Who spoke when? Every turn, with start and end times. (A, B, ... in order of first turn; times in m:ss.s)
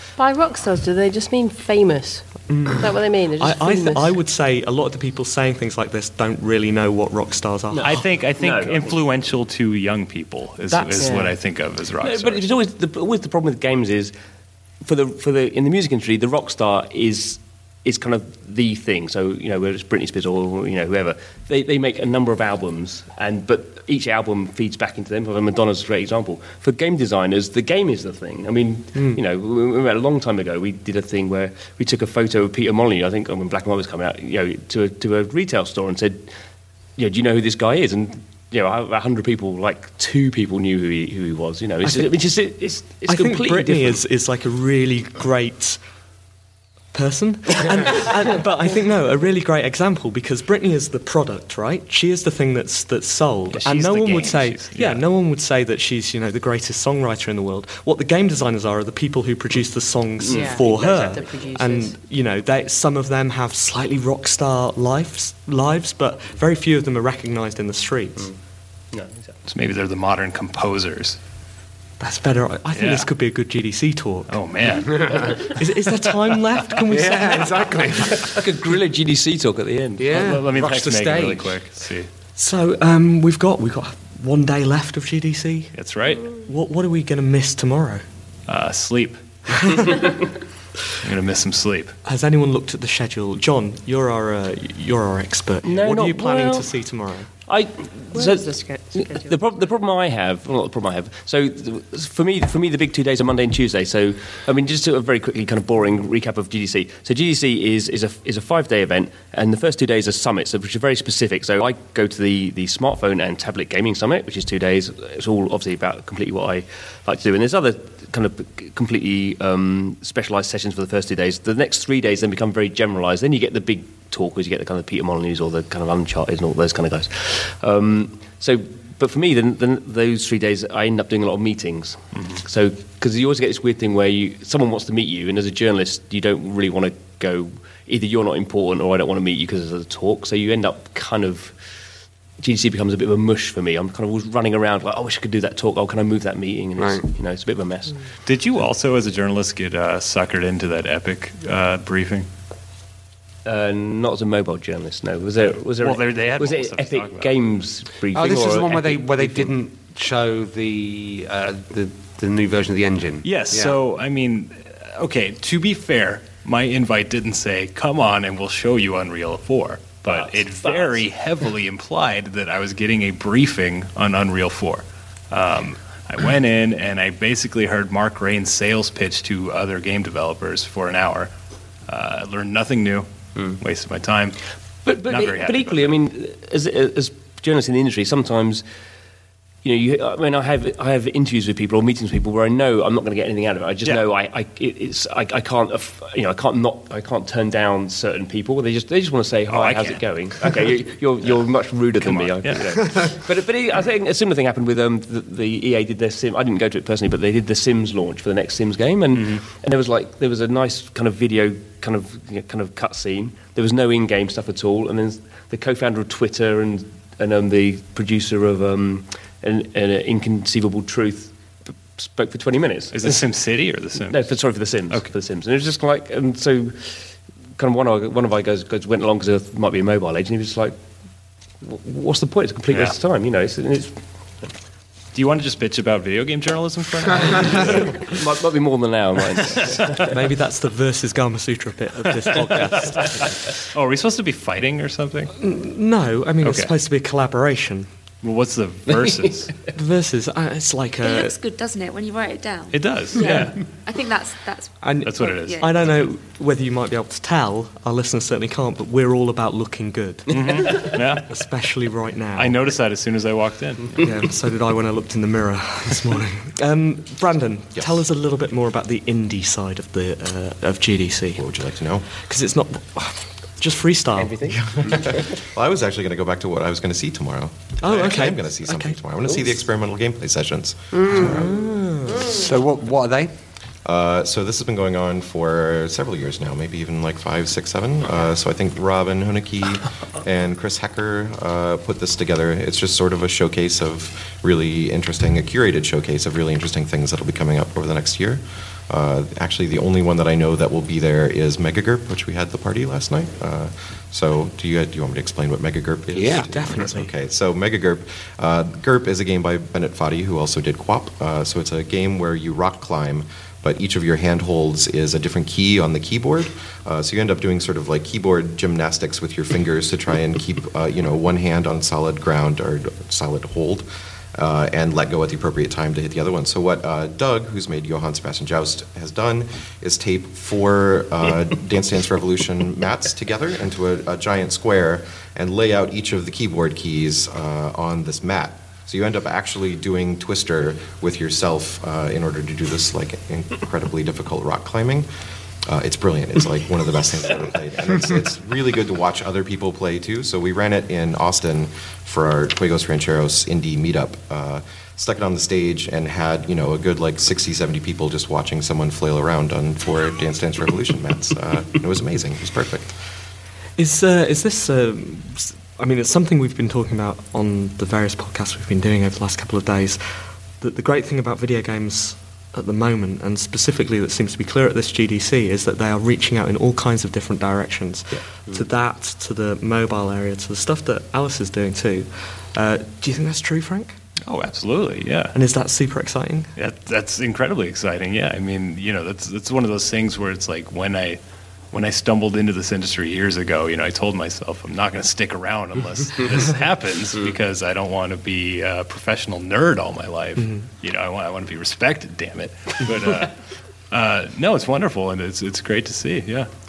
0:00.2-0:04.2 A
0:03.4-0:08.0 B
0:07.7-0:09.0 C
0:07.8-0:12.4 D
0:10.7-0:11.3 B
0:12.0-0:14.1 C
0:14.8-0:36.3 C
0:29.0-0:29.2 B
0:37.0-0:44.0 C
0:43.0-0:45.8 B
0:46.9-1:08.3 B
0:53.5-0:55.0 D
1:00.2-1:00.7 C
1:00.2-1:02.0 A
1:08.9-1:09.4 C
1:09.5-1:11.2 D
1:12.0-1:14.4 B
1:12.7-1:13.1 D
1:14.3-1:15.5 D
1:14.9-1:15.5 E
1:15.5-1:17.8 B
1:16.9-1:18.6 E
1:18.2-1:20.0 C
1:20.0-1:21.6 E
1:20.1-1:22.1 D
1:22.4-1:25.7 B
1:25.8-1:26.3 D
1:26.4-1:28.0 B
1:28.5-1:30.2 D
1:31.0-1:31.9 D
1:32.0-1:37.3 B
1:35.6-1:36.7 C
1:37.5-2:21.6 C
1:38.1-1:39.6 A
2:12.2-2:12.4 D
2:22.4-2:28.0 C
2:26.8-2:27.0 E
2:28.3-2:32.3 D
2:33.4-2:39.5 C
2:35.8-2:37.3 D
2:38.1-2:43.8 E
2:43.2-3:01.3 D
2:50.1-2:51.0 C
3:01.9-3:04.4 D
3:04.8-3:08.6 C
3:05.0-3:05.9 D
3:09.6-3:43.2 C
3:19.5-3:20.0 D
3:22.0-3:22.7 D
3:29.2-3:29.4 D
3:42.9-3:44.3 D
3:44.0-3:50.8 C
3:51.6-3:54.5 C
3:55.1-3:58.2 D
3:57.9-4:00.1 C
3:59.5-3:59.8 D
4:00.1-4:03.4 B
4:02.6-4:05.3 D
4:05.4-4:07.9 B
4:06.4-4:06.7 D
4:08.2-4:09.6 D
4:09.7-4:11.4 B
4:11.0-4:15.7 F
4:12.7-4:13.6 D
4:14.8-4:22.7 B
4:15.0-4:16.0 D
4:20.3-4:21.3 D
4:22.4-4:24.0 D
4:24.0-4:31.4 B
4:31.4-4:32.1 G
4:32.2-4:34.6 B
4:34.2-4:34.6 C
4:34.5-4:41.6 G
4:37.8-4:39.0 B
4:41.2-4:42.3 B
4:42.3-4:43.3 E
4:43.8-5:45.1 G
5:06.1-5:06.5 E
5:06.5-5:07.1 B
5:45.7-6:03.0 G
6:03.8-6:24.0 B
6:24.3-6:25.4 D
6:25.3-6:26.5 B
6:26.6-6:31.2 D
6:31.7-6:46.5 D